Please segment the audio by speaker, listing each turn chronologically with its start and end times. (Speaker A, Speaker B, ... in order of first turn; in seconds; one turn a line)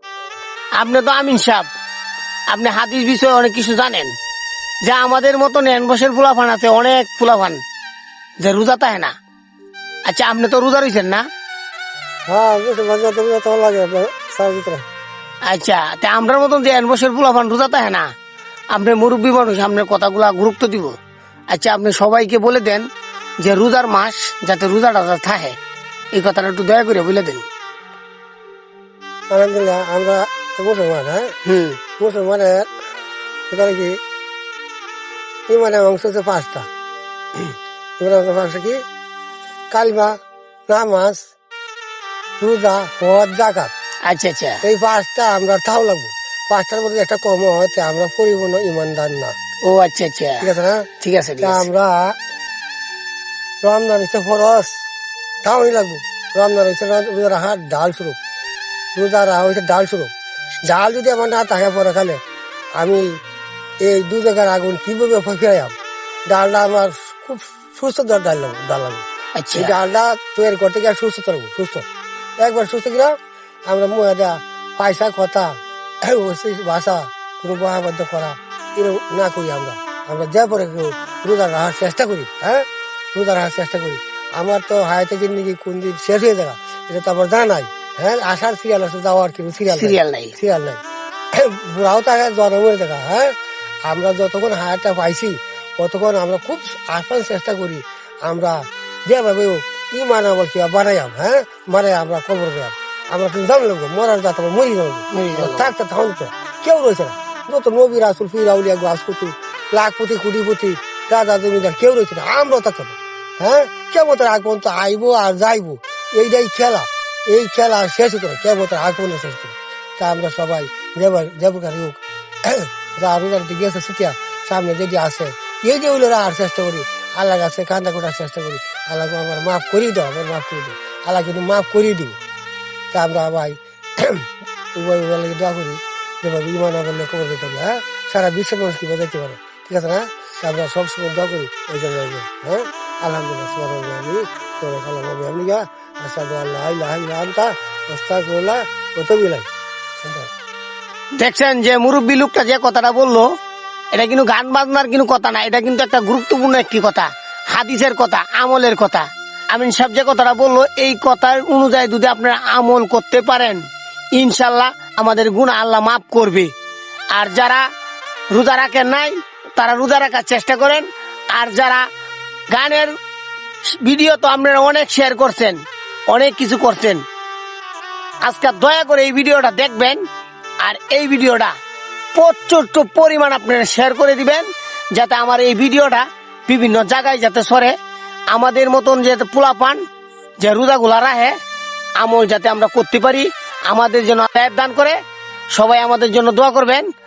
Speaker A: 0.8-1.7
Speaker A: 2.5-4.1
Speaker A: 4.8-7.6
Speaker A: 8.4-9.1
Speaker A: 10.1-11.3
Speaker B: 12.3-14.8
Speaker A: 15.5-18.1
Speaker A: 18.7-21.0
Speaker A: 21.5-22.9
Speaker A: 23.4-25.6
Speaker A: 26.1-27.5
Speaker B: 29.3-31.3
Speaker A: 31.5-31.8
Speaker B: 32.0-32.7
Speaker B: 33.5-34.0
Speaker B: 35.5-36.7
Speaker B: 38.0-38.8
Speaker B: 39.7-40.1
Speaker B: 40.7-41.2
Speaker B: 42.4-43.7
Speaker A: 44.1-44.6
Speaker B: 44.6-49.3
Speaker A: 49.6-50.5
Speaker B: 50.4-50.9
Speaker A: 51.0-51.7
Speaker B: 51.4-52.1
Speaker B: 53.6-54.8
Speaker B: 55.4-58.2
Speaker B: 59.0-60.1
Speaker B: 60.6-62.2
Speaker B: 62.8-63.1
Speaker B: 63.8-65.8
Speaker B: 66.3-71.8
Speaker A: 69.4-69.8
Speaker B: 72.4-90.8
Speaker A: 89.7-90.4
Speaker B: 91.3-93.3
Speaker B: 93.9-132.2
Speaker A: 105.1-105.7
Speaker B: 132.9-149.5
Speaker B: 150.0-150.3
Speaker A: 151.2-153.3
Speaker A: 153.9-163.6
Speaker A: 164.2-166.5
Speaker A: 167.1-167.7
Speaker A: 168.3-171.9
Speaker A: 172.5-172.9
Speaker A: 173.7-177.0
Speaker A: 178.2-180.0
Speaker A: 180.6-181.5
Speaker A: 182.1-187.8
Speaker A: 188.3-189.8
Speaker A: 190.4-191.4
Speaker A: 192.0-195.0
Speaker A: 195.6-196.9